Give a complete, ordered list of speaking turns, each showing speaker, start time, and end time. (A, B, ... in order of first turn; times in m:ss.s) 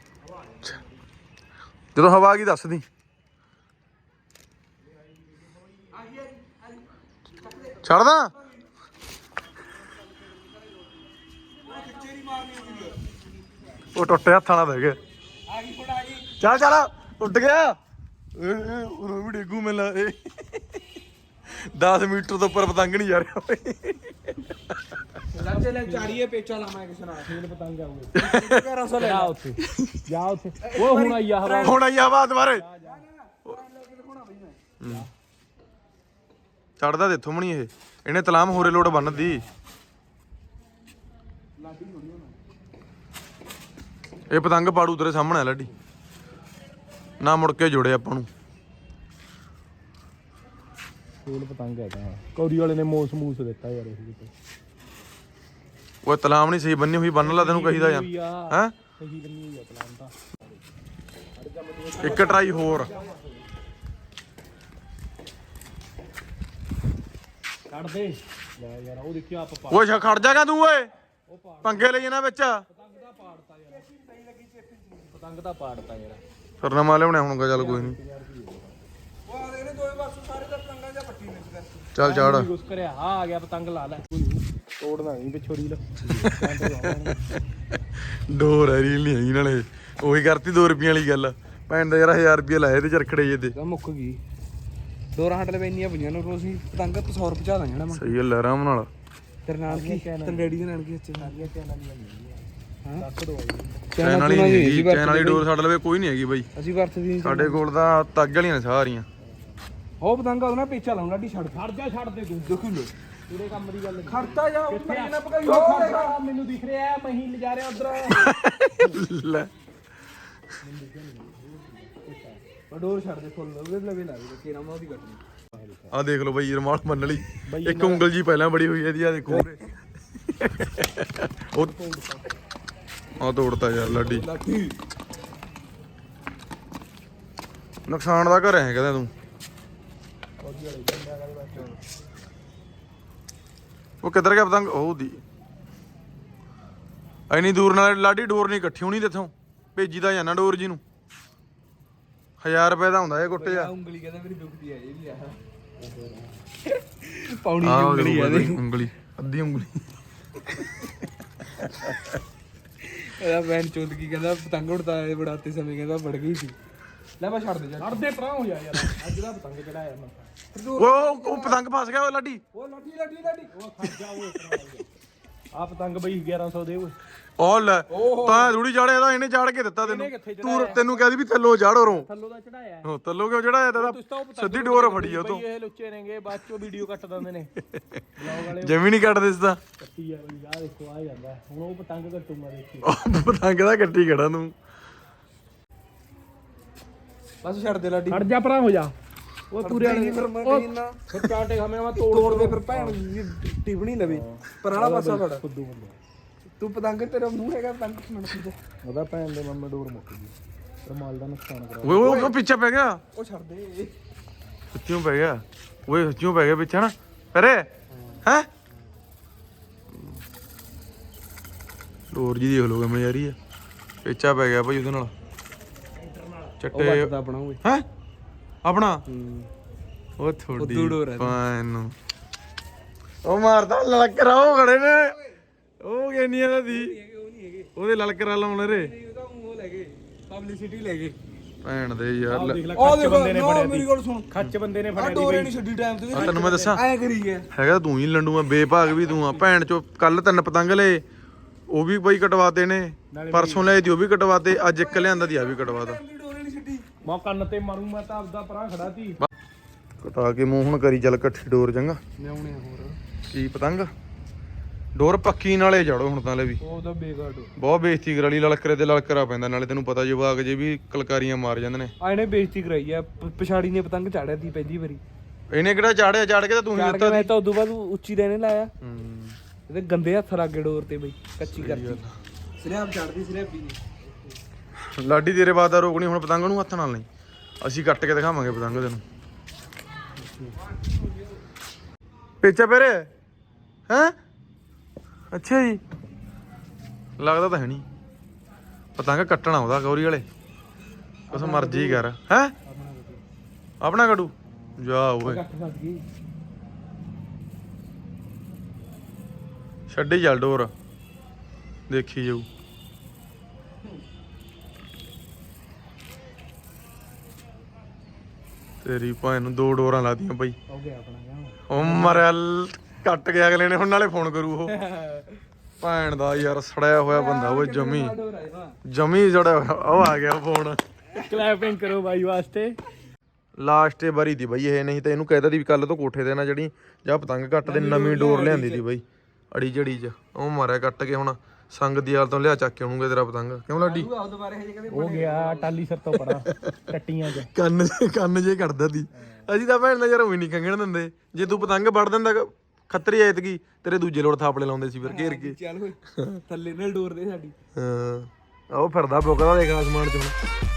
0:02.0-0:02.8 A
0:06.0-0:06.8 B
0:07.4-0:07.8 B
0:07.8-0:08.3 A
0:11.6-0:13.2 B
0:14.0-0:15.0 A
0:15.5-0:16.3 B
0:16.4-0:17.8 A
0:18.4-0:20.6 A
0:21.5-0:24.8 A
0:25.3-0:27.3 B
0:25.4-0:26.2 C
0:27.3-0:28.3 C
0:28.2-0:29.4 B
0:28.3-0:28.6 A
0:29.0-0:31.8 C
0:29.7-0:30.1 A
0:30.6-0:31.8 B
0:31.6-0:32.6 A
0:32.4-0:33.0 C
0:32.8-0:34.6 B
0:34.8-0:35.1 A
0:34.8-0:35.1 C
0:36.8-0:39.4 A
0:38.6-0:39.3 B
0:39.0-0:39.5 C
0:41.6-0:42.4 B
0:44.3-0:45.7 A
0:47.2-0:48.3 A
0:51.2-0:54.3 C
0:56.0-0:58.8 A
0:57.2-1:00.1 C
1:01.4-1:03.2 C
1:02.0-1:02.9 A
1:02.0-1:03.1 B
1:07.7-1:10.4 C
1:09.7-1:10.9 A
1:11.3-1:12.1 C
1:11.6-1:12.6 A
1:12.7-1:13.9 C
1:13.7-1:15.1 B
1:15.1-1:16.2 C
1:16.6-1:18.0 A
1:17.5-1:18.8 C
1:19.3-1:21.9 B
1:22.0-1:22.5 A
1:22.0-1:27.2 C
1:26.2-1:26.9 A
1:28.1-1:33.6 A
1:33.5-1:34.2 B
1:35.2-1:38.1 B
1:37.9-1:38.9 A
1:39.5-1:41.4 B
1:39.7-1:43.9 C
1:43.9-1:45.4 B
1:44.0-1:46.5 A
1:46.6-1:47.6 B
1:47.2-1:49.1 A
1:49.2-1:49.7 C
1:50.0-1:51.7 B
1:51.5-1:52.6 C
1:52.4-1:52.9 B
1:53.3-1:59.0 C
1:54.1-1:56.2 B
1:58.1-1:59.5 A
2:00.6-2:02.4 C
2:02.7-2:05.2 B
2:05.5-2:06.0 C
2:05.9-2:09.6 A
2:07.5-2:08.1 C
2:10.2-2:11.7 A
2:11.6-2:12.3 C
2:13.2-2:14.3 A
2:13.8-2:14.8 B
2:17.9-2:19.1 A
2:20.4-2:21.8 C
2:24.0-2:25.2 A
2:27.3-2:30.8 A
2:32.4-2:33.7 A
2:33.3-2:35.4 B
2:35.8-2:36.3 C
2:36.7-2:38.7 B
2:37.6-2:39.9 A
2:42.8-2:46.6 B
2:47.2-2:48.0 B
2:47.8-2:50.3 C
2:50.5-2:51.6 B
2:50.8-2:52.4 A
2:52.5-2:54.6 B
2:53.5-2:54.9 C
2:55.6-2:57.0 C
2:57.4-3:02.1 A
2:57.9-2:58.6 B
2:59.8-3:01.1 C
3:01.8-3:02.9 C
3:02.8-3:05.4 A
3:03.7-3:07.5 C
3:07.7-3:09.6 A
3:08.2-3:08.8 C
3:09.8-3:12.9 C
3:12.8-3:14.5 A
3:17.4-3:18.2 B
3:18.1-3:18.9 C
3:19.5-3:23.0 C
3:19.6-3:21.0 B
3:22.0-3:25.4 B
3:24.0-3:26.0 C
3:26.6-3:28.6 B
3:28.8-3:30.4 C
3:30.9-3:32.2 C
3:31.8-3:33.0 A
3:32.0-3:32.4 B
3:33.1-3:34.0 B
3:34.7-3:37.7 A
3:37.9-3:38.2 B
3:42.1-3:43.4 A
3:44.0-3:45.1 A
3:46.1-3:46.5 C
3:46.6-3:47.8 A
3:46.7-3:47.6 B
3:48.6-3:49.0 A
3:49.1-3:49.5 B
3:50.2-3:51.9 A
3:50.6-3:51.4 B
3:53.2-3:55.2 A
3:54.9-3:55.3 B
3:55.8-3:57.0 A
3:56.7-3:57.7 B
3:57.8-3:58.9 A
3:58.6-4:01.2 B
4:01.6-4:02.6 A
4:02.3-4:06.8 C
4:02.7-4:04.3 B
4:04.9-4:07.5 B
4:06.1-4:06.8 A
4:07.5-4:11.0 A
4:11.7-4:16.0 A
4:13.1-4:13.8 C
4:14.7-4:16.9 B
4:17.0-4:19.2 C
4:20.0-4:22.0 A
4:22.2-4:23.0 B
4:23.3-4:23.9 A
4:25.0-4:26.6 A
4:26.6-4:27.5 B
4:27.6-4:31.9 A
4:32.0-4:35.0 B
4:35.5-4:37.3 A
4:36.7-4:38.7 B
4:38.8-4:39.4 A
4:39.7-4:42.0 B
4:41.5-4:42.1 A
4:42.6-4:44.0 B
4:45.0-4:47.1 A
4:47.6-4:49.0 A
4:52.4-4:53.1 A
4:53.9-4:54.1 A
4:55.3-4:55.8 A
4:57.2-4:57.8 A
4:59.0-5:00.2 A
5:01.3-5:02.0 B
5:01.3-5:02.5 A
5:02.6-5:03.2 B
5:03.8-5:05.4 A
5:04.6-5:06.0 B
5:09.9-5:10.7 A
5:11.9-5:12.5 A
5:18.8-5:20.6 A
5:20.7-5:21.6 C
5:21.7-5:24.8 A
5:21.8-5:22.2 B
5:24.7-5:25.4 B
5:25.8-5:28.1 A
5:27.1-5:28.8 B
5:28.9-5:30.8 A
5:31.2-5:32.8 C
5:33.6-5:44.1 A
5:37.6-5:38.8 B
5:43.8-5:45.8 B
5:44.9-5:47.5 C
5:47.5-5:55.6 A
5:51.4-5:51.8 B
5:55.0-5:57.6 B
5:57.8-6:00.4 A